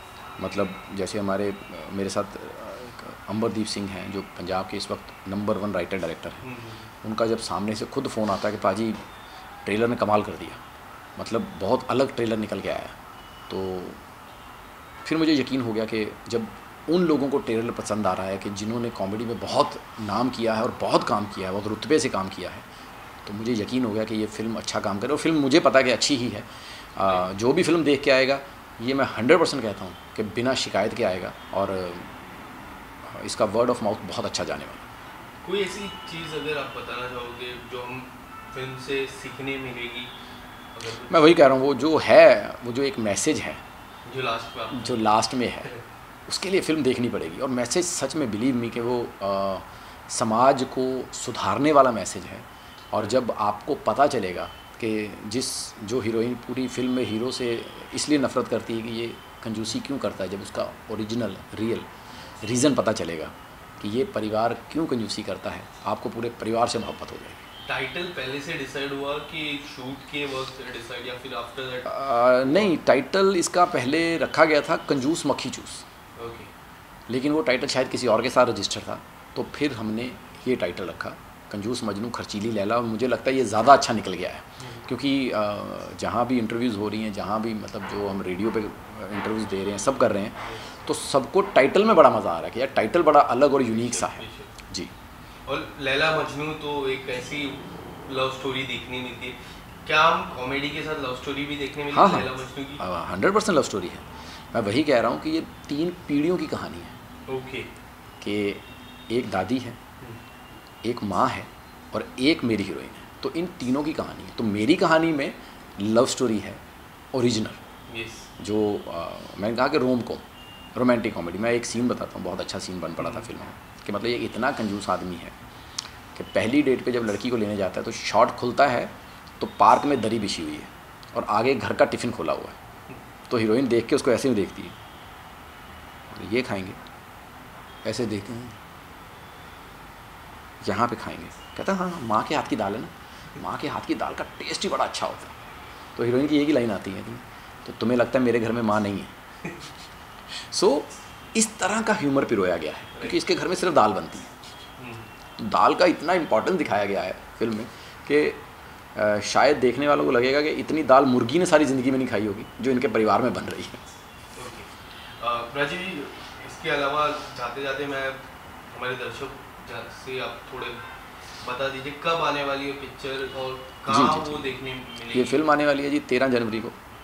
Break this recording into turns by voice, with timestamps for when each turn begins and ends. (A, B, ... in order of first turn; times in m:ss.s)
0:00.4-0:06.5 A
0:06.4-0:06.9 B
0:07.0-0:09.0 A
0:09.6-0:10.6 A
0:11.2-0:13.0 A
0:13.5-0:14.0 A
0:15.0-0:22.7 A
0:23.2-0:34.9 A
0:35.4-0:40.1 B
0:40.7-0:41.5 B
0:41.1-0:43.6 A
0:44.1-0:45.0 B
0:44.7-0:45.7 A
0:46.3-1:01.9 A
1:02.4-1:07.4 A
1:07.7-1:12.7 B
1:11.9-1:15.8 A
1:16.2-1:16.5 B
1:17.1-1:34.9 A
1:24.6-1:24.9 B
1:30.4-1:30.7 B
1:33.6-1:34.5 B
1:35.5-1:42.8 B
1:41.9-1:47.0 A
1:47.3-1:47.7 B
1:48.2-1:49.8 A
1:50.8-1:56.6 A
1:57.1-1:57.6 A
1:57.9-1:58.3 B
1:58.4-2:00.2 A
2:00.8-2:05.4 A
2:03.0-2:03.3 B
2:06.2-2:12.6 A
2:13.3-2:14.8 A
2:16.1-2:16.8 A
2:17.8-2:18.6 A
2:20.6-2:25.4 A
2:26.0-2:29.1 A
2:30.3-2:34.3 A
2:33.0-2:33.2 B
2:34.8-2:35.1 B
2:35.4-2:38.4 A
2:39.0-2:43.8 A
2:44.4-2:50.8 B
2:51.4-2:55.4 B
2:53.9-2:54.6 A
2:55.1-2:56.8 A